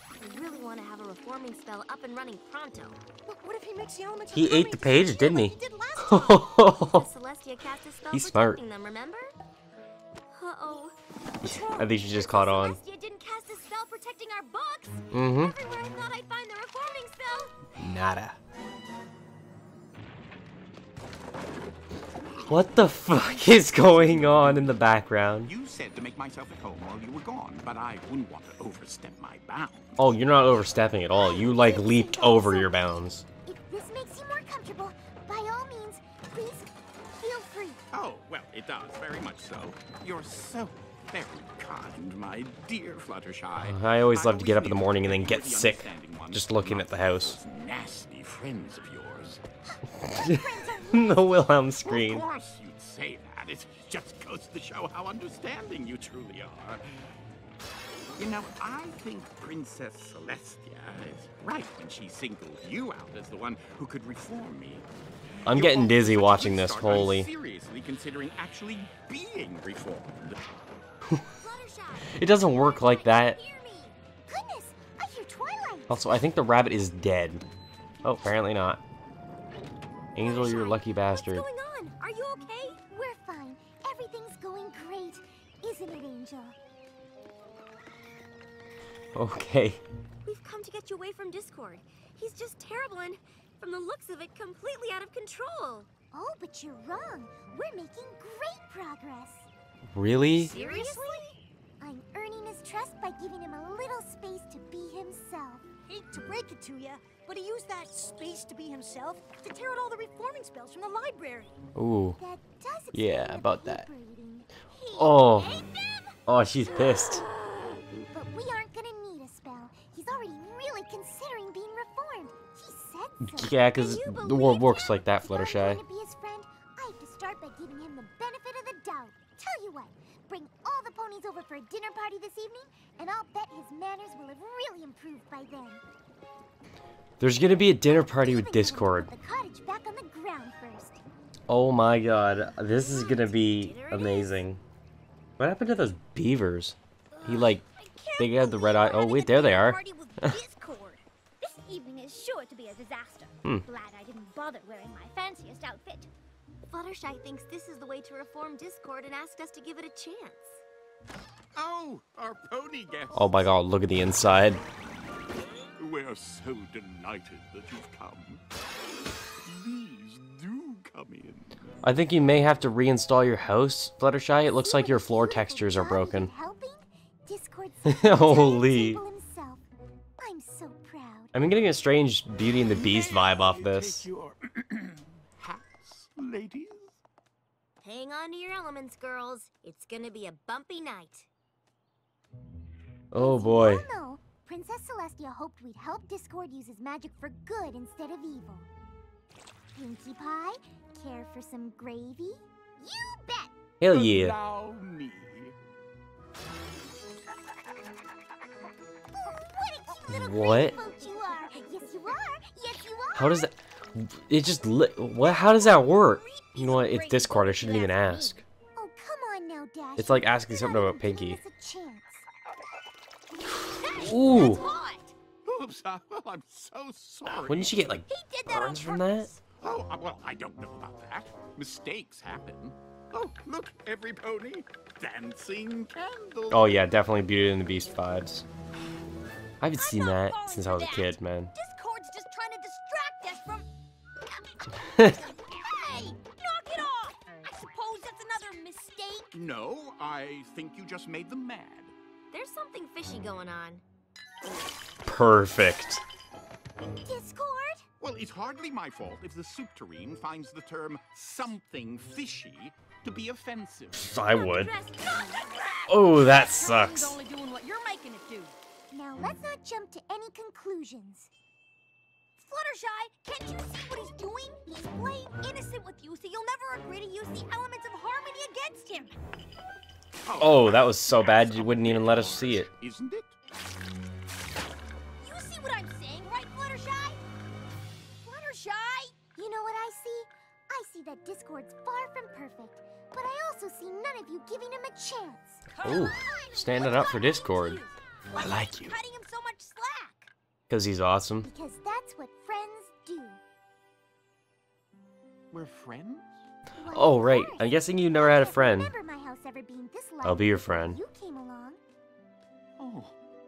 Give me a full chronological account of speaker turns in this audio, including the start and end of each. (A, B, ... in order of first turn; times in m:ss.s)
0:00.2-0:03.0 A
0:03.2-0:06.5 B
0:04.3-0:07.0 C
0:06.5-0:09.3 A
0:08.1-0:08.6 C
0:10.3-0:11.0 A
0:11.4-0:12.8 C
0:11.5-0:17.6 A
0:15.1-0:15.5 C
0:17.8-0:18.4 C
0:22.5-0:25.5 C
0:23.5-0:24.8 D
0:25.4-0:30.1 D
0:30.0-0:33.2 C
0:31.1-0:37.8 E
0:37.9-0:49.4 D
0:43.6-0:47.4 C
0:50.0-0:52.2 C
0:50.1-0:51.3 E
0:51.8-0:56.8 D
0:58.2-1:04.9 D
1:05.4-1:10.6 D
1:05.4-1:07.3 C
1:11.3-1:14.0 A
1:12.1-1:13.4 C
1:14.3-1:16.1 E
1:15.9-1:17.4 C
1:18.0-1:18.8 C
1:20.1-1:21.4 C
1:20.2-1:22.8 A
1:22.9-1:26.6 E
1:29.1-1:29.8 C
1:30.2-1:35.9 A
1:36.1-1:39.5 E
1:39.9-1:40.5 C
1:40.4-1:41.4 B
1:40.4-1:41.3 A
1:41.8-1:45.6 E
1:45.9-1:51.6 B
1:51.7-1:52.2 C
1:52.2-1:54.5 E
1:52.9-1:53.9 C
1:54.7-1:56.2 B
1:54.9-1:55.6 C
1:56.2-1:57.2 C
1:58.1-2:15.8 E
2:03.2-2:05.8 C
2:17.2-2:19.1 C
2:17.9-2:21.0 E
2:21.5-2:24.6 C
2:22.6-2:24.5 A
2:25.4-2:27.6 C
2:27.1-2:36.1 B
2:28.2-2:30.3 C
2:36.7-2:40.6 A
2:41.5-2:43.5 D
2:43.1-2:44.6 C
2:45.8-2:48.4 D
2:49.4-2:51.6 D
2:51.8-2:56.3 C
2:54.4-2:59.6 E
2:57.8-2:59.0 C
3:00.2-3:01.3 E
3:01.3-3:04.1 C
3:02.7-3:07.0 D
3:07.8-3:11.3 A
3:13.1-3:13.8 C
3:13.1-3:18.7 E
3:19.7-3:23.5 E
3:23.8-3:24.4 C
3:23.8-3:25.5 D
3:29.2-3:33.5 E
3:30.1-3:30.8 C
3:30.5-3:30.9 B
3:33.1-3:38.4 C
3:35.2-3:38.4 B
3:38.7-3:42.2 E
3:40.0-3:41.4 C
3:43.6-3:45.1 B
3:43.9-3:44.6 C
3:45.4-3:47.9 D
3:47.3-3:49.3 C
3:48.1-3:49.4 B
3:49.6-3:56.9 D
3:56.5-3:58.4 C
3:59.6-4:01.5 C
3:59.7-4:03.7 B
4:04.3-4:09.3 B
4:04.8-4:05.2 C
4:09.3-4:11.9 D
4:12.3-4:13.8 A
4:15.0-4:16.0 C
4:17.0-4:17.8 E
4:18.0-4:24.2 D
4:23.9-4:24.7 C
4:24.3-4:28.5 B
4:25.9-4:27.2 C
4:28.9-4:31.3 E
4:32.4-4:39.2 B
4:40.2-4:43.4 D
4:40.4-4:42.7 C
4:45.2-4:47.2 B
4:48.2-4:49.3 B
4:49.3-4:55.6 E
4:55.7-5:00.3 B
4:55.8-4:57.8 C
4:58.3-4:59.0 C
5:00.7-5:01.5 C
5:01.4-5:03.4 E
5:05.5-5:06.4 D
5:06.8-5:11.8 E
5:06.9-5:08.9 C
5:10.2-5:11.0 C
5:12.8-5:13.2 D